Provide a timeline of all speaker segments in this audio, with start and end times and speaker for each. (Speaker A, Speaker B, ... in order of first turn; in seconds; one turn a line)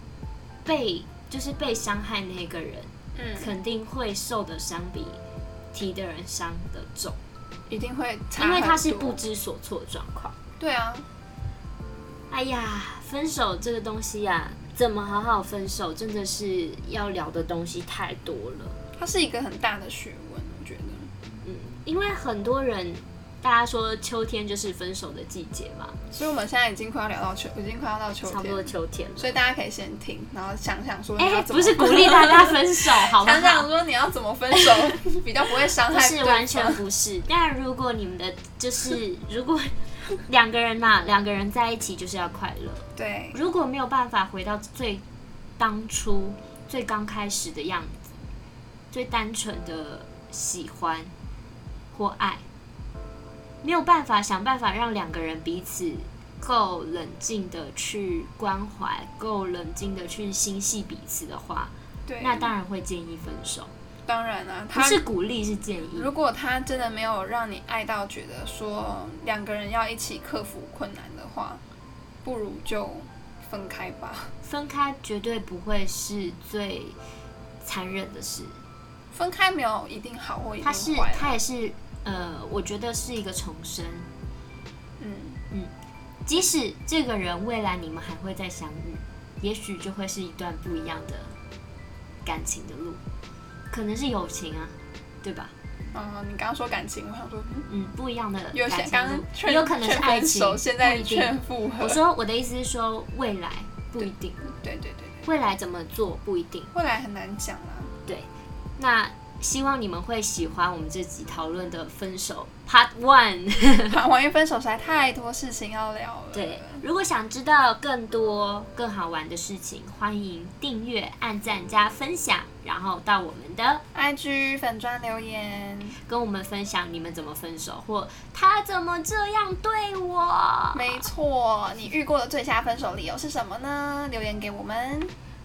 Speaker A: 0.6-5.2
Speaker B: 3.1-3.5
Speaker A: 5.7-7.2
Speaker B: 7.7-9.2
Speaker A: 8.4-10.3
Speaker B: 10.6-11.1
Speaker A: 12.3-18.8
Speaker B: 19.0-21.1
Speaker A: 21.4-26.0
Speaker B: 26.1-36.8
Speaker A: 28.2-29.4
Speaker A: 31.2-33.7
Speaker A: 35.9-45.0
Speaker B: 42.9-43.4
Speaker A: 45.6-48.2
Speaker A: 48.9-51.1
Speaker A: 51.9-52.4
Speaker A: 53.6-63.7
Speaker B: 62.1-62.5
Speaker B: 64.1-65.0
Speaker A: 64.7-66.1
Speaker B: 65.9-71.6
Speaker B: 72.2-74.3
Speaker A: 74.4-77.0
Speaker A: 77.6-78.6
Speaker B: 79.1-81.4
Speaker A: 80.6-84.1
Speaker B: 85.0-85.4
Speaker A: 86.2-91.3
Speaker A: 92.2-93.0
Speaker A: 93.7-95.5
Speaker B: 95.9-97.7
Speaker A: 97.7-104.5
Speaker B: 98.5-102.0
Speaker B: 104.0-105.3
Speaker A: 105.2-106.7
Speaker B: 106.7-107.9
Speaker A: 108.1-114.0
Speaker B: 113.9-116.8
Speaker A: 116.3-123.8
Speaker B: 123.9-126.0
Speaker A: 126.1-131.1
Speaker B: 130.7-135.1